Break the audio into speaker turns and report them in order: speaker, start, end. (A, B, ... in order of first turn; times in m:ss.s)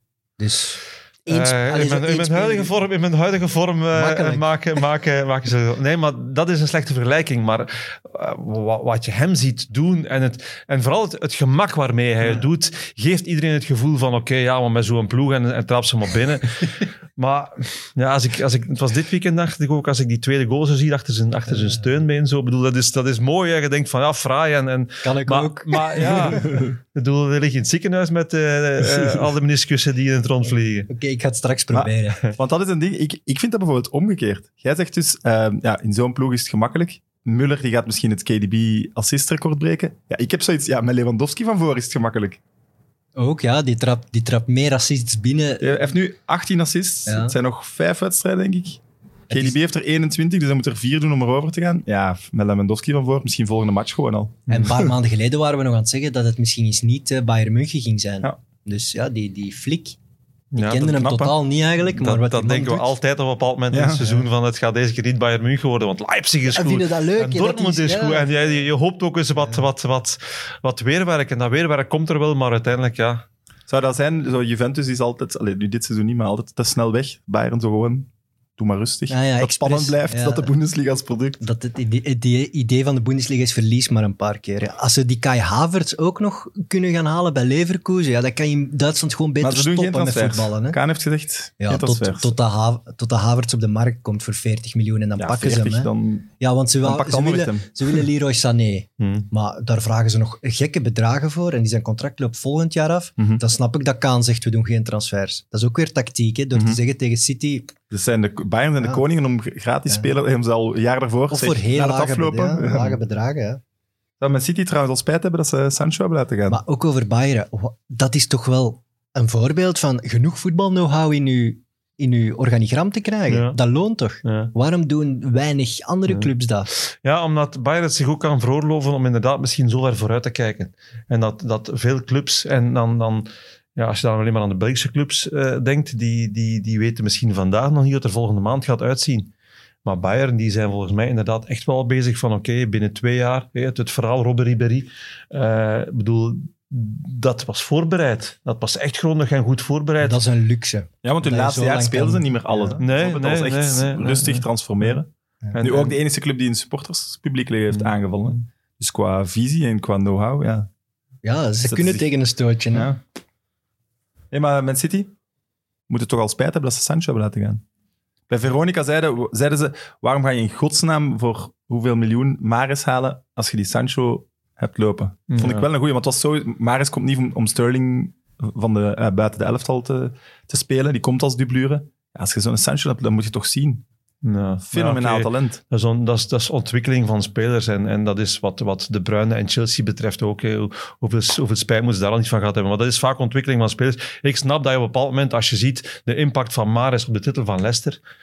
0:00.4-0:02.7 A
0:01.3-0:30.9 B
0:03.9-0:04.5 A
0:21.5-0:21.8 A
0:25.0-0:26.4 A
0:26.0-0:26.7 C
0:29.0-0:29.2 C
0:30.9-0:32.3 A
0:31.7-0:42.4 C
0:43.2-0:45.8 A
0:45.6-0:54.9 C
0:47.1-0:47.4 A
0:49.3-0:49.6 A
0:54.5-1:00.0 A
1:00.5-1:01.0 B
1:00.6-1:02.9 A
1:00.9-1:01.3 C
1:01.9-1:13.3 B
1:03.7-1:04.1 C
1:06.5-1:08.5 A
1:13.7-1:21.4 C
1:19.1-1:20.5 A
1:21.4-1:30.8 A
1:29.4-1:32.4 C
1:31.6-1:47.7 A
1:35.2-1:36.3 C
1:36.8-1:38.0 C
1:39.0-1:39.3 B
1:46.5-1:46.8 C
1:47.9-1:53.0 C
1:51.3-1:53.6 A
1:54.2-1:56.6 C
1:56.5-2:06.7 A
2:03.3-2:03.6 B
2:04.2-2:04.5 B
2:06.1-2:19.3 B
2:19.8-2:30.2 B
2:30.0-2:32.8 A
2:31.0-2:35.1 C
2:32.8-2:35.0 B
2:35.5-2:35.9 B
2:35.6-2:40.7 C
2:41.2-2:42.9 A
2:41.6-2:42.1 C
2:42.7-2:43.0 C
2:44.3-2:45.1 C
2:45.9-2:47.6 C
2:48.3-3:03.8 C
2:55.3-2:55.7 B
3:04.2-3:18.0 B
3:04.7-3:05.6 C